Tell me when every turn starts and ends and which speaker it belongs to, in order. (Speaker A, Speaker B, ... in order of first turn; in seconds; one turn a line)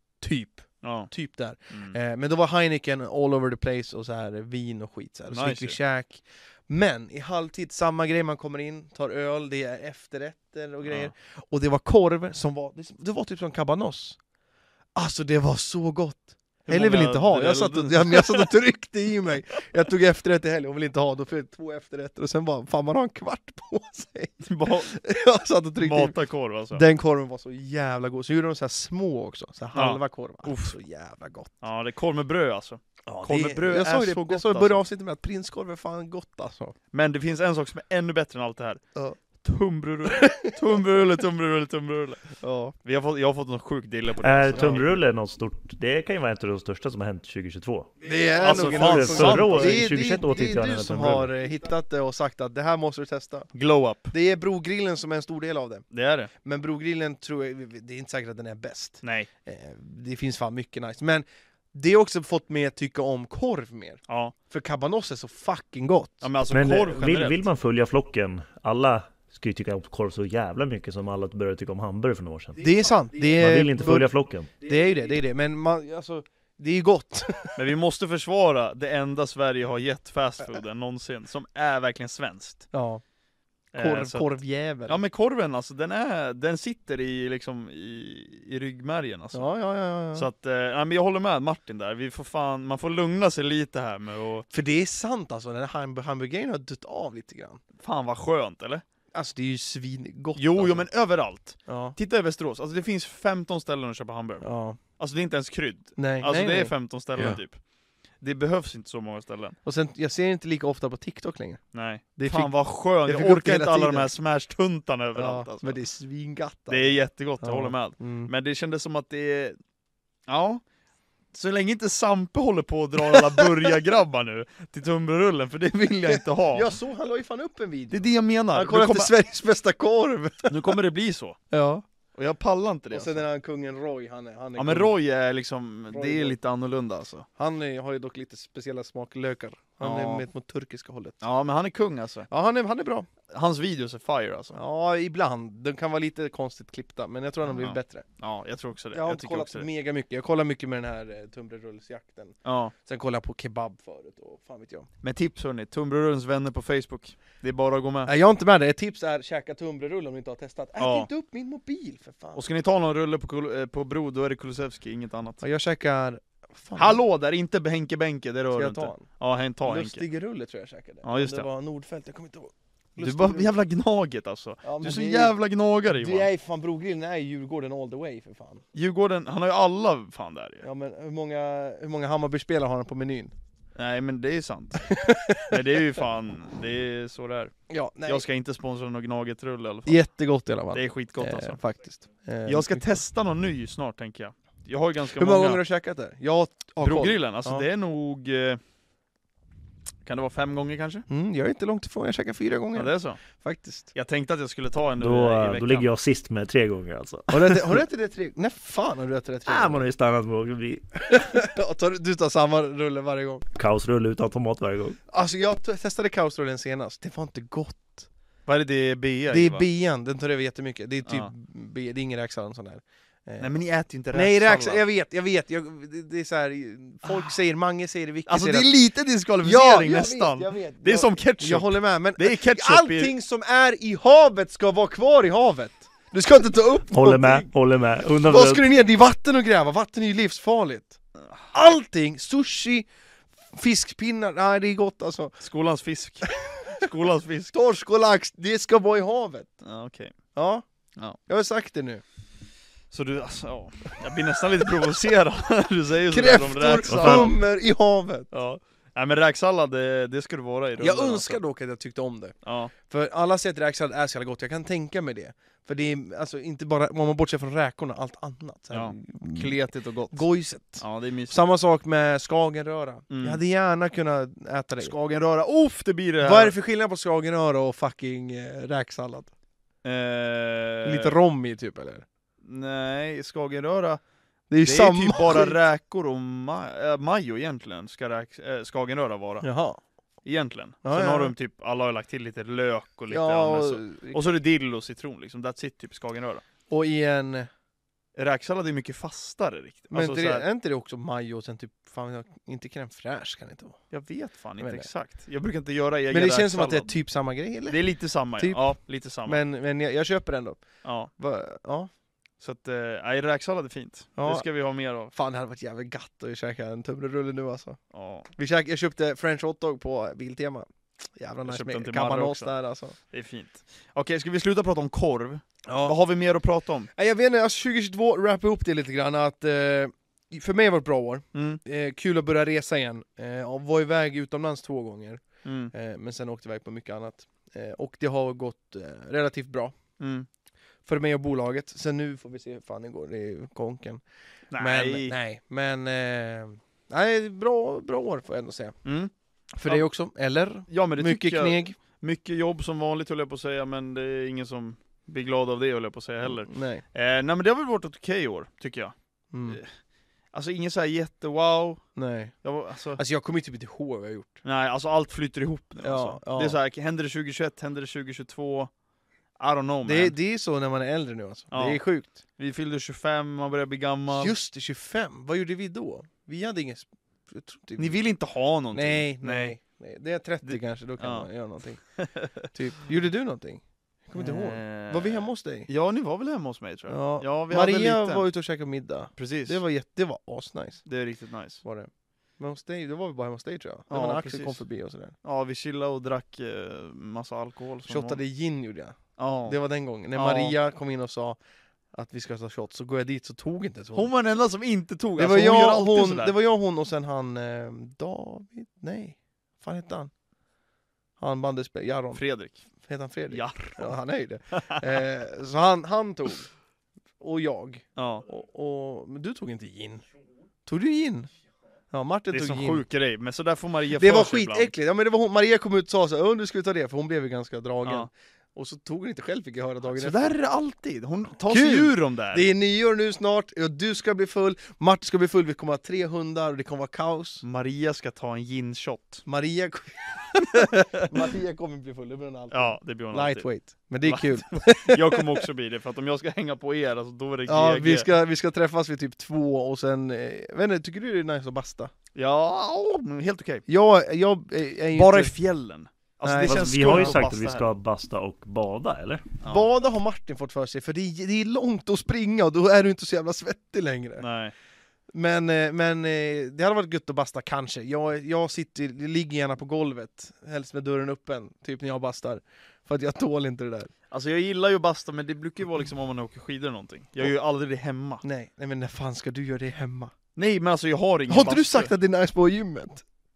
Speaker A: 0.2-14.2
Speaker B: 0.8-1.1
Speaker B: 1.7-1.9
Speaker B: 5.3-5.8
Speaker B: 10.8-11.1
Speaker A: 14.9-26.1
Speaker B: 16.7-18.5
Speaker B: 24.4-24.9
Speaker B: 25.8-26.8
Speaker A: 26.7-31.5
Speaker B: 29.8-30.8
Speaker B: 31.6-34.8
Speaker A: 33.1-36.8
Speaker B: 36.9-38.8
Speaker B: 39.4-44.9
Speaker A: 40.1-40.8
Speaker A: 42.4-42.8
Speaker C: 44.2-51.3
Speaker A: 44.5-44.8
Speaker A: 48.0-53.5
Speaker B: 48.4-49.9
Speaker B: 53.5-54.1
Speaker A: 54.1-55.9
Speaker B: 55.9-56.3
Speaker A: 56.4-66.3
Speaker B: 59.0-59.3
Speaker B: 64.1-64.3
Speaker B: 66.2-67.5
Speaker C: 66.5-72.6
Speaker A: 72.6-77.7
Speaker C: 73.3-74.5
Speaker B: 77.6-82.7
Speaker A: 82.7-83.0
Speaker B: 83.7-84.3
Speaker A: 83.8-85.0
Speaker B: 84.9-89.5
Speaker A: 89.3-90.3
Speaker B: 90.1-94.5
Speaker A: 94.5-97.6
Speaker B: 97.8-98.8
Speaker A: 99.1-100.9
Speaker B: 100.4-104.5
Speaker A: 101.7-102.0
Speaker A: 104.4-104.8
Speaker B: 105.0-107.6
Speaker A: 106.0-107.4
Speaker B: 108.2-109.6
Speaker A: 109.6-114.1
Speaker B: 111.7-115.8
Speaker A: 115.2-118.3
Speaker B: 116.7-119.6
Speaker B: 120.3-120.6
Speaker B: 121.3-126.7
Speaker A: 123.1-123.5
Speaker A: 126.1-130.8
Speaker B: 127.9-129.1
Speaker B: 130.5-131.4
Speaker A: 131.5-131.8
Speaker B: 132.2-133.2
Speaker A: 132.9-134.9
Speaker B: 134.6-137.3
Speaker A: 135.9-136.4
Speaker A: 137.4-141.2
Speaker B: 139.8-140.2
Speaker B: 141.2-142.3
Speaker A: 142.3-143.1
Speaker B: 143.3-144.6
Speaker A: 144.5-148.1
Speaker B: 147.5-149.7
Speaker A: 148.9-154.9
Speaker B: 152.4-152.7
Speaker B: 155.0-158.1
Speaker A: 158.1-162.4
Speaker B: 160.8-161.1
Speaker B: 162.3-165.4
Speaker A: 165.4-167.0
Speaker B: 166.8-170.0
Speaker A: 168.5-169.1
Speaker A: 169.6-173.5
Speaker B: 171.0-171.5
Speaker B: 173.0-176.3
Speaker A: 174.6-175.4
Speaker A: 175.9-178.6
Speaker B: 178.7-180.7
Speaker A: 180.6-183.3
Speaker B: 183.8-187.5
Speaker A: 184.8-186.0
Speaker A: 187.7-188.2
Speaker B: 188.1-190.0
Speaker A: 189.9-192.9
Speaker B: 190.7-191.6
Speaker B: 192.5-195.6
Speaker A: 195.2-197.7
Speaker B: 196.8-198.6
Speaker B: 200.1-201.1
Speaker A: 201.1-203.9
Speaker B: 202.8-203.2
Speaker B: 203.9-205.9
Speaker C: 205.0-207.8
Speaker A: 207.3-209.9
Speaker C: 209.5-211.2
Speaker A: 211.1-213.5
Speaker C: 213.6-215.0
Speaker A: 215.1-218.1
Speaker B: 218.5-219.7
Speaker A: 219.3-223.5
Speaker B: 221.1-221.3
Speaker B: 223.4-224.8
Speaker A: 224.1-228.8
Speaker B: 228.3-233.1
Speaker A: 229.4-237.5
Speaker C: 236.9-238.6
Speaker A: 238.3-241.0
Speaker A: 241.5-242.9
Speaker A: 243.5-245.4
Speaker B: 245.4-247.5
Speaker A: 246.2-246.9
Speaker A: 247.5-249.5
Speaker B: 249.6-250.2
Speaker A: 250.3-250.6
Speaker A: 251.3-252.0
Speaker B: 252.9-257.4
Speaker A: 256.1-258.3
Speaker C: 256.9-257.3
Speaker B: 258.3-261.4
Speaker A: 260.8-274.9
Speaker B: 262.4-262.7
Speaker B: 268.7-270.2
Speaker B: 270.8-271.4
Speaker B: 273.1-273.4
Speaker B: 274.8-276.6
Speaker A: 276.2-279.3
Speaker B: 279.8-281.2
Speaker A: 280.8-282.1
Speaker B: 282.4-284.0
Speaker A: 284.5-285.6
Speaker B: 284.6-289.5
Speaker A: 289.4-289.8
Speaker B: 290.2-296.4
Speaker A: 290.8-291.4
Speaker A: 293.1-294.3
Speaker A: 296.7-297.5
Speaker B: 298.2-300.4
Speaker A: 299.9-303.8
Speaker B: 303.9-306.9
Speaker A: 304.6-304.9
Speaker A: 306.1-307.8
Speaker B: 307.7-309.4
Speaker A: 308.4-308.7
Speaker A: 309.2-311.9
Speaker B: 310.8-311.1
Speaker B: 312.4-315.1
Speaker A: 314.2-314.5
Speaker A: 315.1-317.8
Speaker B: 317.9-318.3
Speaker A: 318.3-323.0
Speaker B: 321.5-322.5
Speaker B: 323.1-326.9
Speaker A: 325.7-326.0
Speaker A: 326.9-339.8
Speaker B: 331.3-331.6
Speaker B: 335.4-335.7
Speaker B: 340.0-340.3
Speaker A: 340.9-344.0
Speaker B: 344.5-345.1
Speaker A: 344.6-348.8
Speaker B: 348.9-349.1
Speaker A: 349.5-351.8
Speaker B: 350.7-358.9
Speaker A: 356.2-356.8
Speaker A: 359.3-359.6
Speaker B: 359.4-359.7
Speaker B: 360.3-361.8
Speaker A: 361.9-362.4
Speaker B: 362.4-363.0
Speaker A: 362.9-364.4
Speaker B: 364.4-368.7
Speaker A: 365.8-366.6
Speaker B: 369.4-370.1
Speaker A: 369.8-372.2
Speaker B: 371.5-374.3
Speaker A: 374.1-378.0
Speaker B: 377.8-379.6
Speaker A: 378.7-385.7
Speaker B: 380.4-381.3
Speaker B: 381.9-382.5
Speaker B: 384.1-388.3
Speaker A: 386.9-390.8
Speaker B: 389.2-389.6
Speaker B: 390.9-391.6
Speaker A: 391.6-395.1
Speaker B: 393.9-394.6
Speaker B: 395.2-398.2
Speaker A: 397.9-401.4
Speaker B: 399.2-399.6
Speaker B: 400.1-400.6
Speaker A: 401.9-404.1
Speaker B: 403.9-406.4
Speaker A: 405.2-410.1
Speaker A: 411.2-412.2
Speaker B: 412.1-412.6
Speaker A: 412.7-416.5
Speaker B: 413.3-414.0
Speaker B: 414.5-415.0
Speaker A: 417.2-420.1
Speaker B: 418.0-418.2
Speaker A: 420.7-421.3
Speaker A: 421.9-422.9
Speaker B: 422.3-424.7
Speaker A: 423.9-430.3
Speaker B: 429.9-432.5
Speaker A: 431.5-437.4
Speaker B: 437.4-439.2
Speaker A: 439.3-445.4
Speaker B: 440.4-441.3
Speaker B: 442.5-443.5
Speaker B: 444.0-448.1
Speaker A: 447.5-451.9
Speaker B: 452.1-453.6
Speaker A: 453.7-455.3
Speaker B: 454.9-457.7
Speaker A: 456.2-457.2
Speaker C: 456.4-459.3
Speaker B: 459.4-459.7
Speaker A: 459.4-464.2
Speaker B: 464.2-464.5
Speaker A: 465.1-473.9
Speaker B: 474.1-478.2
Speaker A: 478.2-480.1
Speaker B: 480.4-481.9
Speaker A: 481.3-483.0